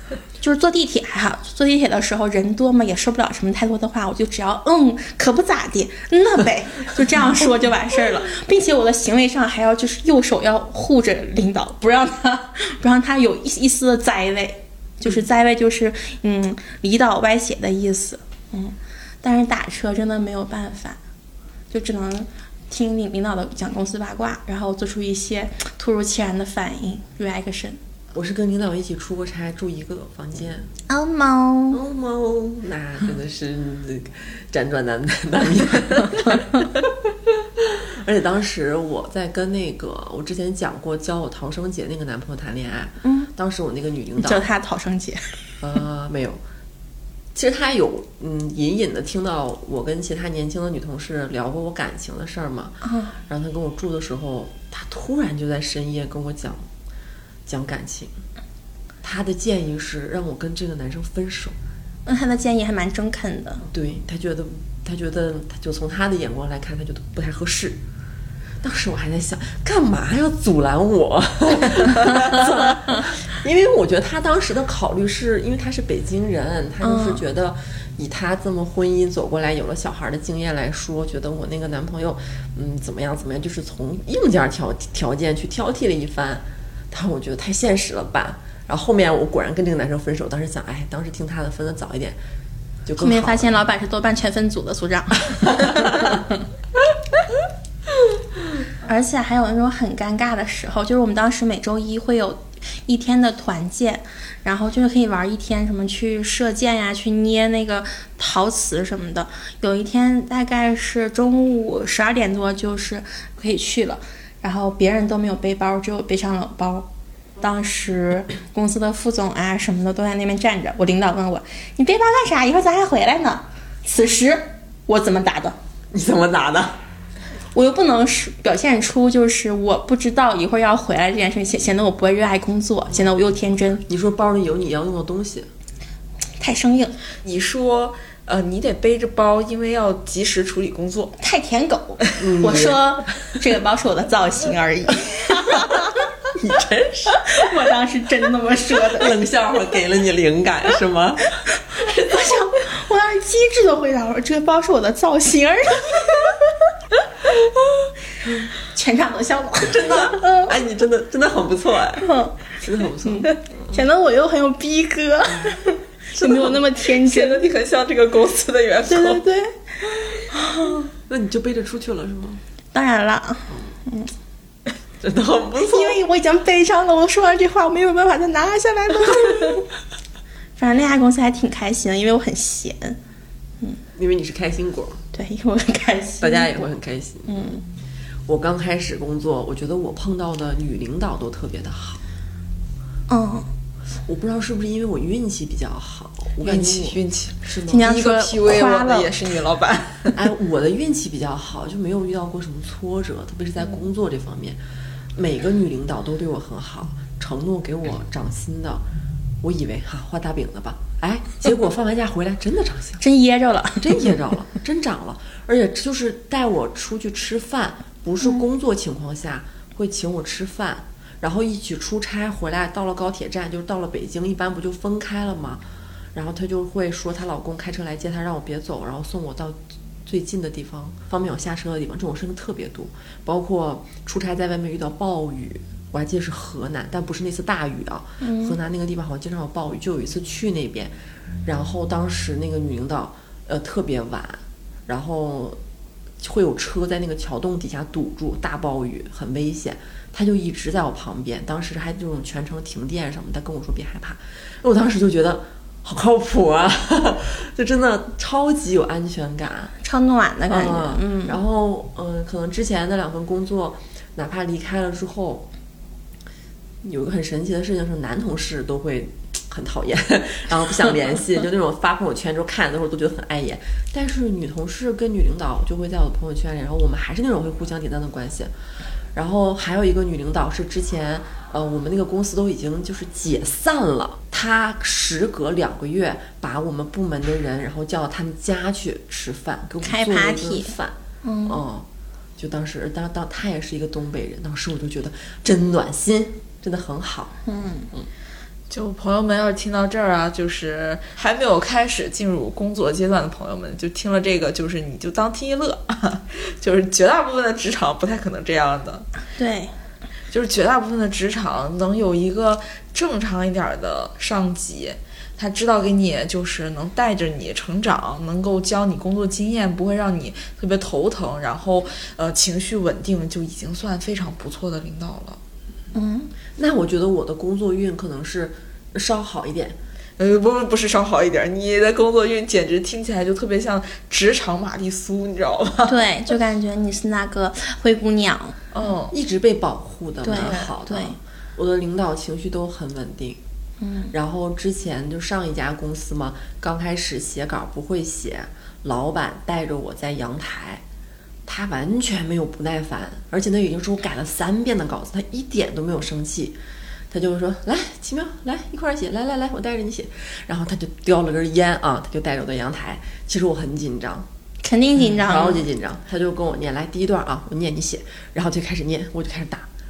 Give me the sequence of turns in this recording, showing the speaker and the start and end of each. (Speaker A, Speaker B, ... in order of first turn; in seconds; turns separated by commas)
Speaker A: 0.4-21.0, Speaker A: 21.7-27.8, Speaker B: 28.1-30.7, Speaker A: 30.9-31.8, Speaker B: 31.7-44.5, Speaker A: 43.0-43.3, Speaker A: 44.2-45.3, Speaker B: 45.6-46.4, Speaker B: 47.3-52.8, Speaker A: 52.8-53.1, Speaker B: 53.3-56.6, Speaker B: 57.5-58.1, Speaker B: 59.0-61.5, Speaker A: 62.0-63.6, Speaker B: 63.7-67.8, Speaker B: 68.6-92.2, Speaker A: 76.8-77.2, Speaker B: 92.8-93.5, Speaker A: 93.0-96.2, Speaker A: 98.8-116.9, Speaker A: 117.4-125.5, Speaker B: 125.9-126.8, Speaker A: 127.5-133.8, Speaker B: 133.9-135.5, Speaker A: 136.4-136.9, Speaker C: 137.2-141.1, Speaker A: 141.2-145.9, Speaker B: 142.2-142.8, Speaker B: 146.3-147.4, Speaker A: 147.3-149.2, Speaker B: 148.9-152.4, Speaker A: 152.0-156.3, Speaker A: 158.7-160.5, Speaker B: 159.7-163.3, Speaker A: 162.0-162.3, Speaker A: 163.0-167.4, Speaker B: 166.2-166.5, Speaker C: 166.8-169.2, Speaker A: 168.9-169.6, Speaker A: 170.3-170.9, Speaker B: 171.1-172.4, Speaker A: 172.7-174.1, Speaker B: 175.0-176.0, Speaker A: 175.6-179.7, Speaker A: 180.6-183.0, Speaker B: 183.9-185.0, Speaker A: 185.1-186.7, Speaker B: 186.2-187.5, Speaker A: 187.3-187.6, Speaker B: 188.3-192.0, Speaker A: 193.1-193.5, Speaker B: 194.1-197.9, Speaker C: 196.4-200.2, Speaker A: 197.7-199.1, Speaker B: 200.1-204.6, Speaker B: 205.1-208.8, Speaker B: 209.4-213.0, Speaker A: 213.0-213.9, Speaker B: 213.8-225.6, Speaker B: 226.1-240.9, Speaker A: 238.2-238.6, Speaker B: 241.4-245.6, Speaker B: 246.2-259.7, Speaker A: 259.8-261.4, Speaker B: 260.5-265.5, Speaker B: 266.8-278.5, Speaker B: 279.1-290.9, Speaker A: 289.8-290.7, Speaker A: 291.2-291.6, Speaker B: 291.4-297.4, Speaker A: 297.4-297.9, Speaker C: 298.7-309.1, Speaker A: 309.4-309.7, Speaker C: 310.3-325.4, Speaker A: 325.9-326.3, Speaker B: 326.6-329.8, Speaker C: 330.2-336.0, Speaker A: 335.9-338.6, Speaker C: 338.7-339.1, Speaker B: 339.1-343.4, Speaker A: 340.2-341.2, Speaker C: 340.3-340.6, Speaker A: 343.8-344.1, Speaker B: 344.1-350.8, Speaker B: 351.4-356.6, Speaker B: 357.1-364.3, Speaker A: 364.6-365.6, Speaker B: 365.0-369.7